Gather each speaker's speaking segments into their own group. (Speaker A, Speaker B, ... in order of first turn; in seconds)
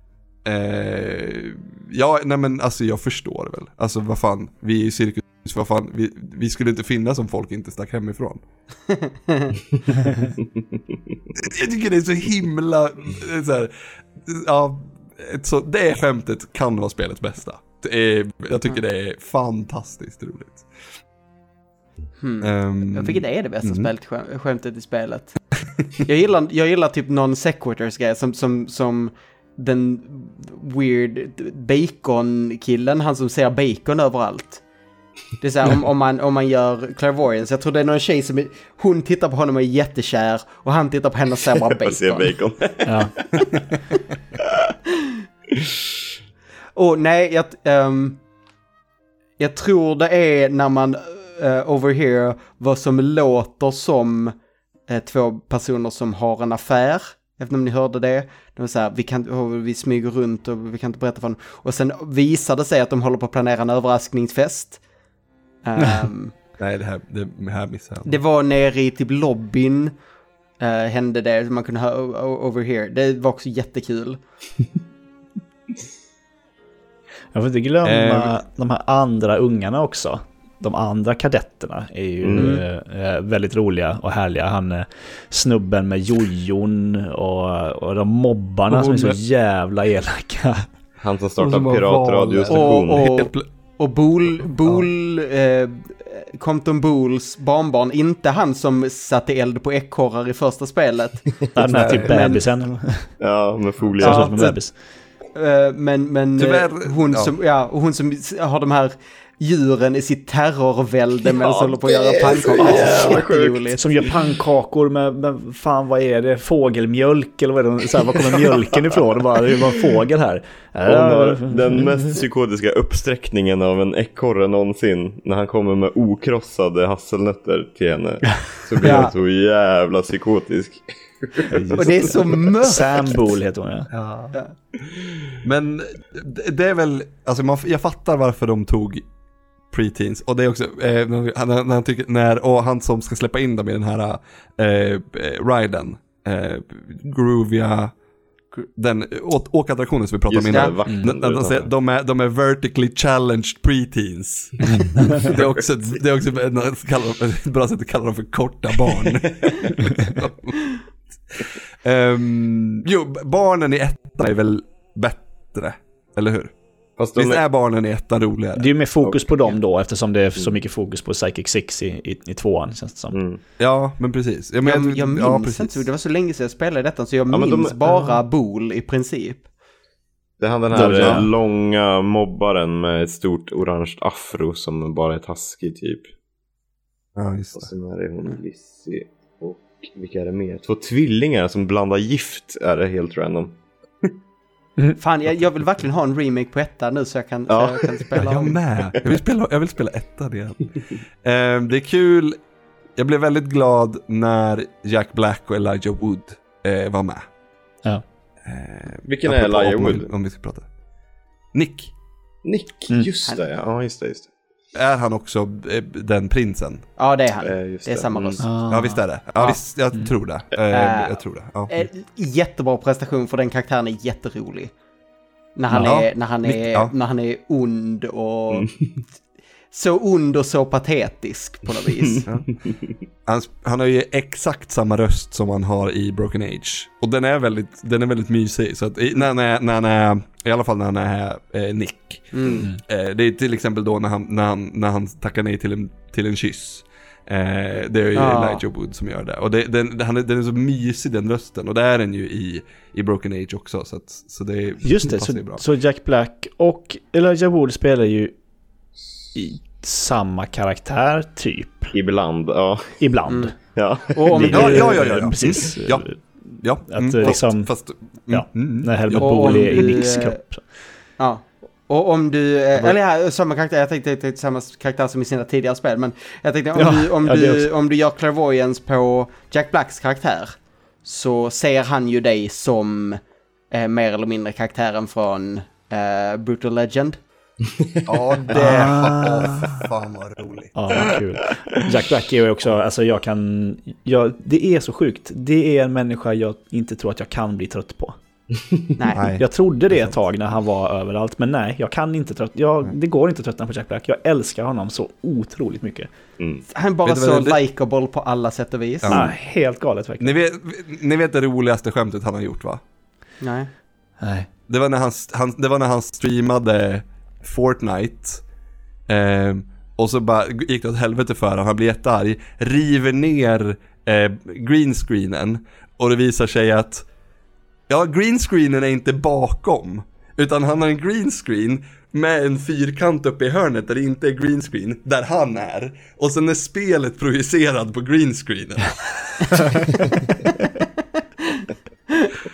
Speaker A: 0.5-8.4, 11.3-20.7, 22.4-23.9, 66.6-68.2, 77.8-78.3, 88.7-89.2, 91.4-93.5, 94.4-94.9, 101.7-102.4, 106.4-107.3, 133.9-134.4, 135.4-139.1, 139.7-147.9, 148.7-160.8, 161.3-166.5, 167.1-168.7, 173.6-175.8, 180.8-181.3, 187.2-187.7, 198.2-200.7, 201.2-202.4, 203.0-207.2, 208.4-210.7, 211.5-211.9, 214.8-216.9, 218.7-221.7, 225.8-226.9, 233.2-255.6, 264.5-266.1, 266.6-269.7, 288.1-290.8, 299.1-300.1, 307.1-307.6, 309.0-309.4, 310.2-312.8, 314.7-318.4, 319.1-327.1, 327.9-340.1
Speaker B: 8.9-9.6, 22.2-25.4, 26.1-34.6, 35.4-42.4, 46.8-48.2, 49.4-54.4, 54.9-64.8, 65.6-66.3, 68.1-70.0, 70.6-74.2, 82.4-82.6, 92.5-102.4, 104.0-104.5, 105.3-113.9, 128.8-129.1, 131.8-133.2, 174.6-179.5, 195.0-198.6, 217.0-218.5, 220.7-224.7, 225.6-228.7, 229.7-232.3, 242.3-242.7, 248.1-248.6, 263.3-263.5, 264.1-265.0, 269.1-270.4, 271.2-283.2, 283.7-287.2, 299.0-299.2, 306.7-309.2, 313.4-313.7
Speaker C: 41.5-43.6, 82.2-82.5, 91.0-93.1, 103.2-104.5, 111.3-113.8, 120.9-132.5, 150.3-151.7, 167.0-167.4, 169.0-169.6, 173.1-173.4, 177.3-178.1, 180.4-186.1, 187.6-193.6, 197.5-198.0, 209.1-210.1, 212.4-214.3, 217.4-218.4, 261.9-263.0, 263.6-264.9, 306.4-306.6
Speaker D: 42.9-43.1, 77.3-90.7, 101.5-103.1, 104.0-104.8, 112.6-113.2, 113.8-121.8, 131.5-133.9, 150.9-151.1, 168.6-173.2, 180.7-181.3, 218.4-219.0, 225.7-226.0, 254.8-258.4, 259.4-261.9, 263.0-263.5, 264.3-267.7, 268.3-270.7, 276.8-277.7, 288.5-289.9, 290.8-298.2, 299.4-306.1, 309.1-310.3, 314.2-314.5